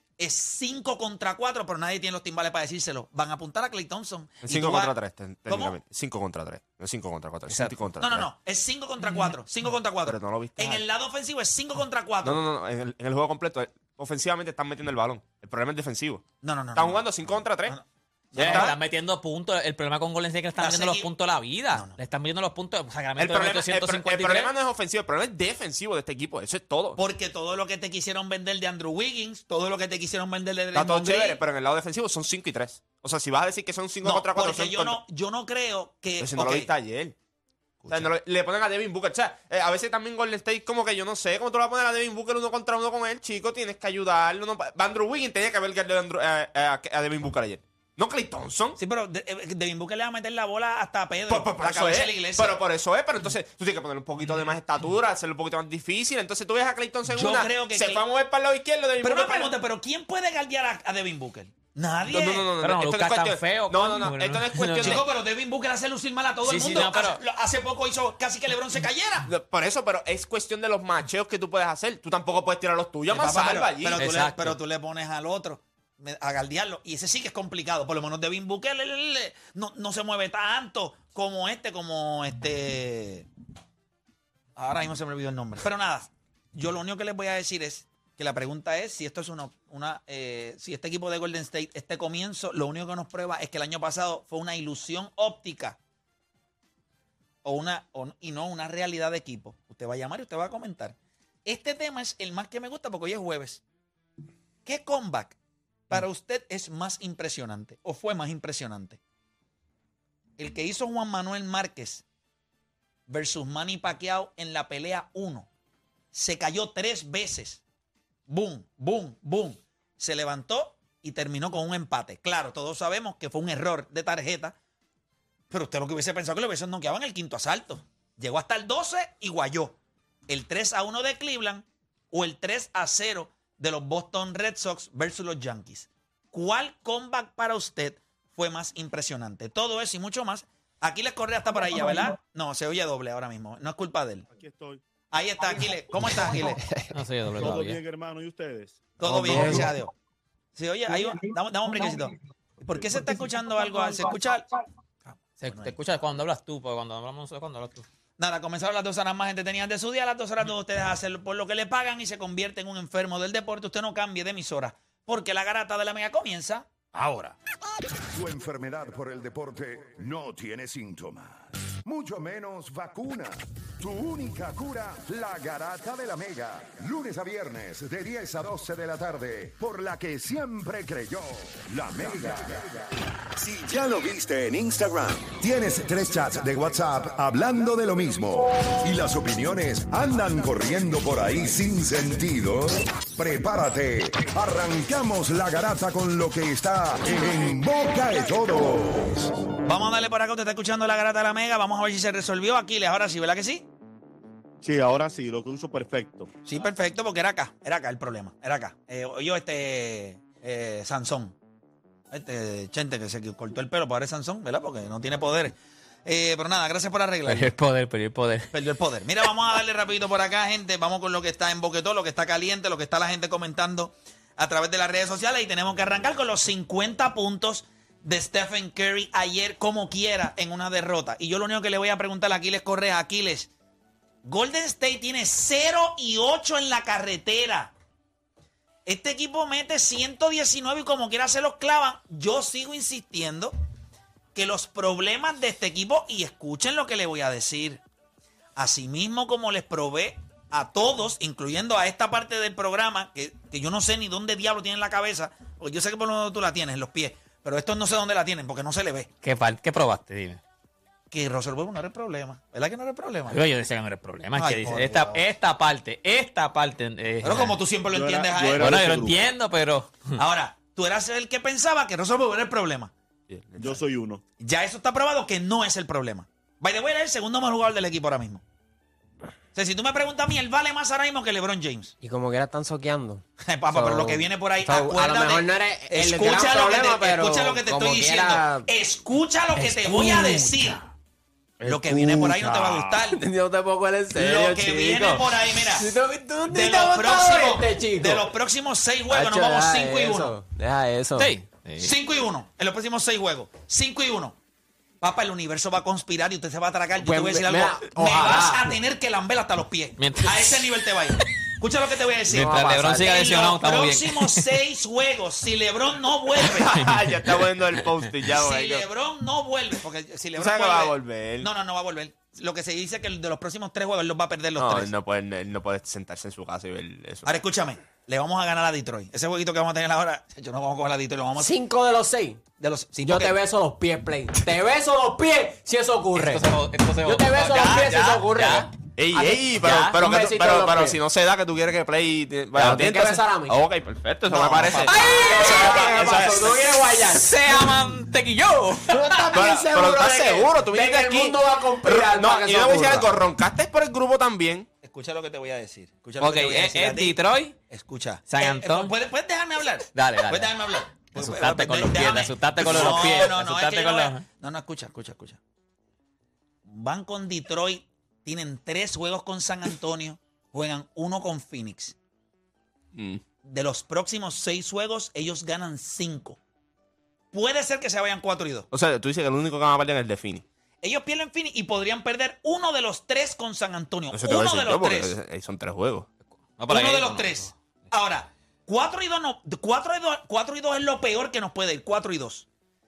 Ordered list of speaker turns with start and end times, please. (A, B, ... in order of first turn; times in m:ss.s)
0:00.2-0:05.0 A
0:04.4-0:08.3 B
0:05.5-0:05.8 A
0:07.5-0:12.4 A
0:10.1-0:10.8 B
0:12.2-0:16.2 B
0:16.4-0:18.8 A
0:16.8-0:17.8 B
0:18.3-0:18.7 B
0:18.4-0:24.5 C
0:20.6-0:21.1 A
0:21.7-0:22.0 A
0:23.2-0:27.0 B
0:27.0-0:31.4 A
0:30.7-0:35.0 B
0:34.0-0:36.7 A
0:36.2-0:37.2 B
0:37.8-0:38.1 A
0:37.9-0:48.8 B
0:48.8-0:52.6 A
0:51.3-0:59.5 B
0:57.1-0:58.0 A
0:59.0-1:02.5 A
1:02.1-1:05.0 B
1:02.6-1:05.0 C
1:04.8-1:09.3 A
1:06.4-1:07.2 C
1:09.3-1:14.0 B
1:13.1-1:23.3 A
1:14.0-1:14.6 C
1:24.6-1:35.8 A
1:37.4-1:43.6 A
1:44.7-1:45.4 A
1:45.9-1:49.0 A
1:50.4-1:52.0 A
1:53.1-1:55.5 A
1:56.1-1:57.6 A
1:58.3-2:04.6 A
2:05.5-2:24.3 A
2:24.3-2:24.8 D
2:25.1-2:26.6 A
2:26.9-2:27.8 C
2:27.3-2:29.8 D
2:29.0-2:29.9 A
2:29.3-2:29.7 E
2:30.6-2:34.5 A
2:35.1-2:35.8 A
2:35.4-2:37.9 C
2:38.2-2:47.3 A
2:48.1-3:19.3 F
3:19.7-3:23.7 A
3:24.6-3:26.3 D
3:26.5-3:31.4 A
3:32.1-3:37.5 A
3:37.3-3:38.5 C
3:38.5-3:53.5 A
3:54.2-3:57.7 A
3:58.9-4:03.6 A
4:04.4-4:07.8 A
4:08.6-4:19.1 A
4:19.2-4:20.4 C
4:21.1-4:23.4 A
4:23.3-4:27.6 C
4:24.4-4:25.2 A
4:27.2-4:29.0 A
4:27.9-4:29.3 D
4:28.6-4:30.2 C
4:30.2-4:32.9 A
4:33.3-4:33.8 B
4:33.6-4:34.2 D
4:34.4-4:38.4 A
4:39.6-4:41.9 A
4:42.0-4:48.7 E
4:43.4-4:50.8 A
4:49.6-4:50.8 E
4:51.6-4:58.3 E
4:51.6-4:53.2 A
4:54.2-4:55.9 A
4:56.5-5:00.4 A
4:59.1-5:01.3 E
5:01.2-5:01.9 C
5:01.8-5:04.4 A
5:05.0-5:16.8 A
5:07.0-5:08.8 E
5:10.0-5:10.7 C
5:12.3-5:13.3 E
5:12.3-5:14.5 C
5:16.4-5:18.9 B
5:16.7-5:18.0 C
5:18.3-5:24.9 A
5:20.4-5:21.5 B
5:24.6-5:27.3 B
5:27.2-5:31.5 A
5:31.4-5:32.5 E
5:32.6-5:33.4 A
5:33.0-5:36.5 E
5:36.2-5:38.7 C
5:37.0-5:41.0 E
5:39.0-5:46.6 B
5:39.6-5:40.0 C
5:42.6-5:43.6 E
5:44.3-5:44.9 A
5:44.4-5:47.7 E
5:44.9-5:45.9 C
5:47.1-5:49.4 C
5:48.9-5:53.1 E
5:49.3-5:54.7 B
5:54.8-5:57.2 A
5:56.2-5:57.6 C
5:57.7-6:05.4 A
5:58.3-5:58.9 C
6:00.0-6:00.6 C
6:01.1-6:04.2 C
6:06.7-6:12.0 A
6:13.0-6:13.2 B
6:13.4-6:16.4 A
6:17.3-6:18.7 A
6:18.7-6:20.4 B
6:20.8-6:25.2 A
6:24.1-6:26.1 B
6:26.6-6:27.5 C
6:26.7-6:32.5 A